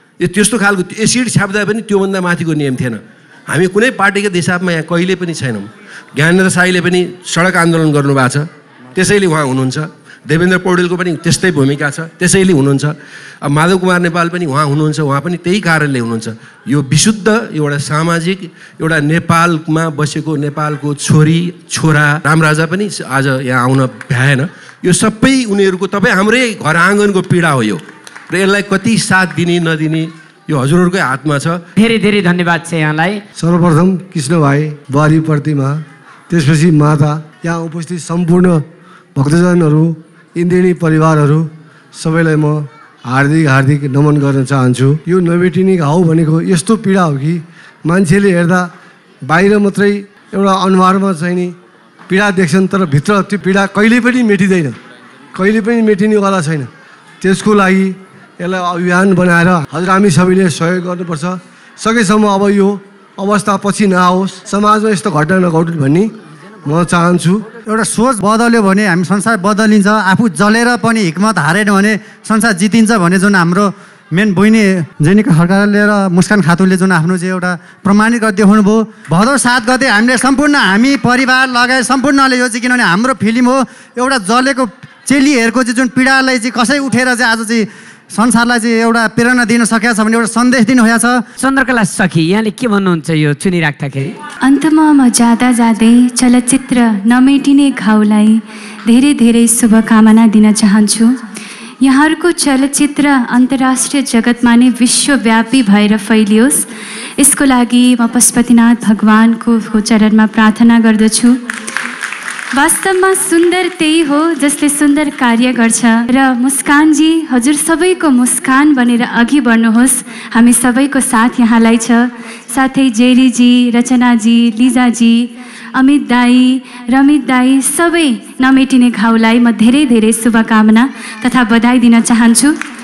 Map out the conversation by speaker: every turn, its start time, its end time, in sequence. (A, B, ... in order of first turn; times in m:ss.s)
0:00.2-0:31.6 A
0:31.8-0:33.2 B
0:33.4-0:38.6 C
0:39.1-0:48.7 C
0:49.2-0:51.5 C
0:52.1-0:54.8 C
0:55.3-0:56.7 C
0:57.2-1:06.1 C
1:06.6-1:07.5 C
1:07.7-1:31.2 D
1:31.4-1:34.1 B
1:34.4-1:41.1 E
1:41.8-1:46.7 E
1:47.2-1:51.4 E
1:52.5-2:12.6 E